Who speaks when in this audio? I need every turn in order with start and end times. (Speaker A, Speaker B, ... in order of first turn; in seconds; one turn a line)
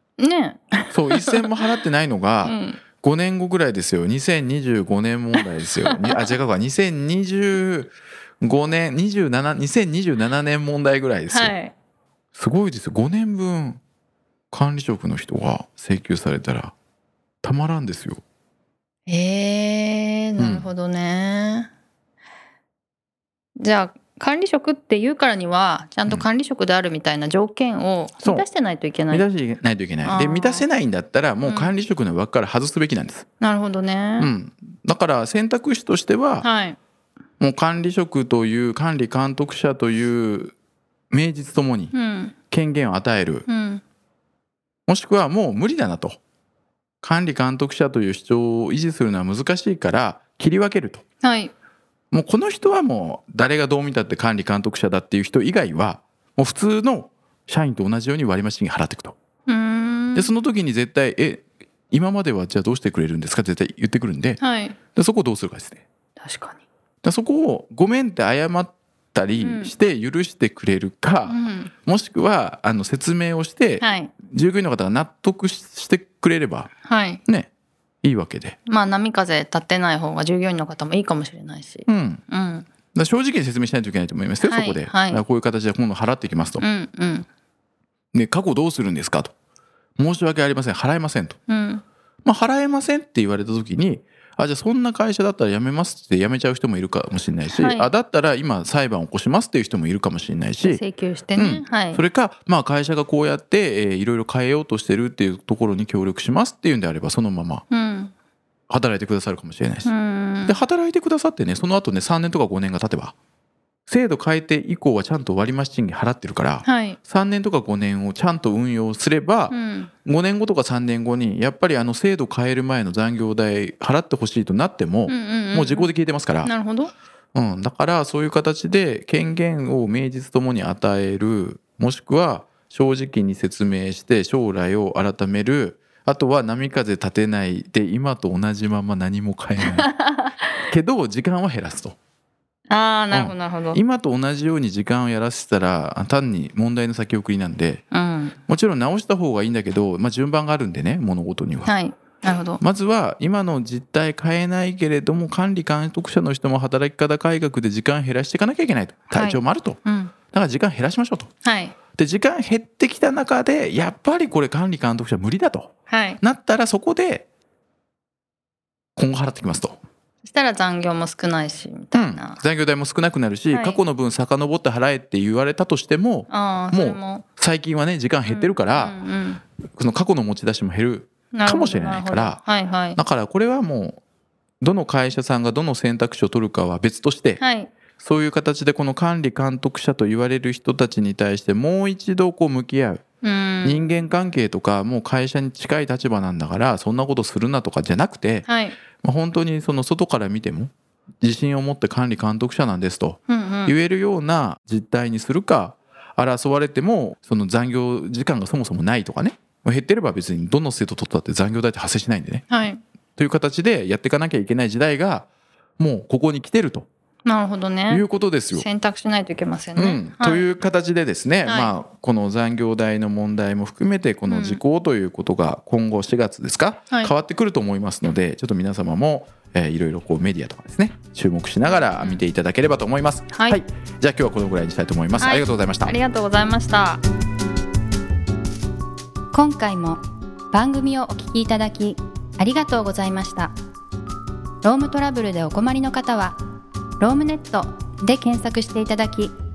Speaker A: 0.2-1.8
Speaker B: 0.9-11.5
Speaker A: 2.4-2.8
Speaker A: 5.3-6.3
Speaker A: 11.3-11.7
Speaker B: 12.3-13.8
Speaker B: 14.5-16.7
Speaker B: 17.4-18.2
Speaker A: 19.1-21.7
Speaker B: 20.4-20.7
Speaker A: 23.6-29.2
Speaker B: 29.1-33.2
Speaker A: 30.0-30.6
Speaker A: 31.4-31.8
Speaker A: 33.4-34.3
Speaker B: 34.2-36.5
Speaker A: 36.4-36.8
Speaker B: 37.4-40.5
Speaker B: 41.1-41.9
Speaker A: 41.9-42.3
Speaker B: 42.5-43.5
Speaker A: 43.5-43.8
Speaker B: 44.9-46.2
Speaker B: 47.0-51.0
Speaker A: 51.2-51.5
Speaker B: 52.1-59.1
Speaker A: 59.5-60.3
Speaker B: 60.1-64.4
Speaker A: 64.4-64.8
Speaker B: 64.9-65.8
Speaker A: 66.2-66.6
Speaker B: 67.0-76.7
Speaker A: 69.4-69.7
Speaker A: 71.3-71.7
Speaker A: 73.8-74.1
Speaker A: 76.8-77.2
Speaker B: 78.0-78.6
Speaker A: 78.7-82.7
Speaker B: 81.9-82.2
Speaker B: 82.9-86.6
Speaker A: 84.4-85.2
Speaker A: 86.6-87.2
Speaker B: 88.1-89.3
Speaker B: 90.0-91.4
Speaker A: 91.5-91.8
Speaker B: 92.2-100.8
Speaker A: 97.5-97.9
Speaker A: 100.6-102.0
Speaker B: 101.3-107.6
Speaker A: 107.7-108.1
Speaker B: 108.7-109.9
Speaker A: 109.8-110.6
Speaker B: 110.5-113.1
Speaker B: 113.9-126.5
Speaker A: 116.6-117.0
Speaker A: 119.5-119.9
Speaker A: 125.1-125.9
Speaker A: 126.4-126.9
Speaker B: 127.3-139.9
Speaker A: 139.6-140.3
Speaker B: 140.6-141.9
Speaker A: 142.7-143.8
Speaker B: 143.1-147.8
Speaker A: 147.9-148.4
Speaker B: 148.5-151.7
Speaker A: 151.7-152.6
Speaker B: 152.6-161.3
Speaker A: 159.1-160.1
Speaker A: 161.4-161.7
Speaker B: 161.9-167.2
Speaker A: 165.9-166.2
Speaker B: 169.0-169.8
Speaker A: 170.2-172.4
Speaker B: 171.9-178.9
Speaker A: 173.5-173.8
Speaker A: 176.3-177.2
Speaker A: 178.2-179.4
Speaker B: 179.8-182.4
Speaker A: 181.3-183.0
Speaker B: 183.0-184.0
Speaker B: 184.6-187.4
Speaker A: 187.4-187.7
Speaker B: 187.9-193.0
Speaker A: 193.2-194.0
Speaker B: 193.6-212.4
Speaker A: 198.4-198.8
Speaker A: 203.3-203.7
Speaker A: 212.5-212.8
Speaker B: 213.2-215.3
Speaker B: 215.8-216.9
Speaker A: 217.2-220.5
Speaker B: 217.9-218.7
Speaker B: 219.8-236.0
Speaker A: 221.4-221.7
Speaker A: 224.3-224.6
Speaker A: 231.7-232.2
Speaker A: 233.3-233.6
Speaker A: 235.2-237.0
Speaker C: 239.3-243.5
Speaker C: 244.6-246.4
Speaker C: 247.0-249.3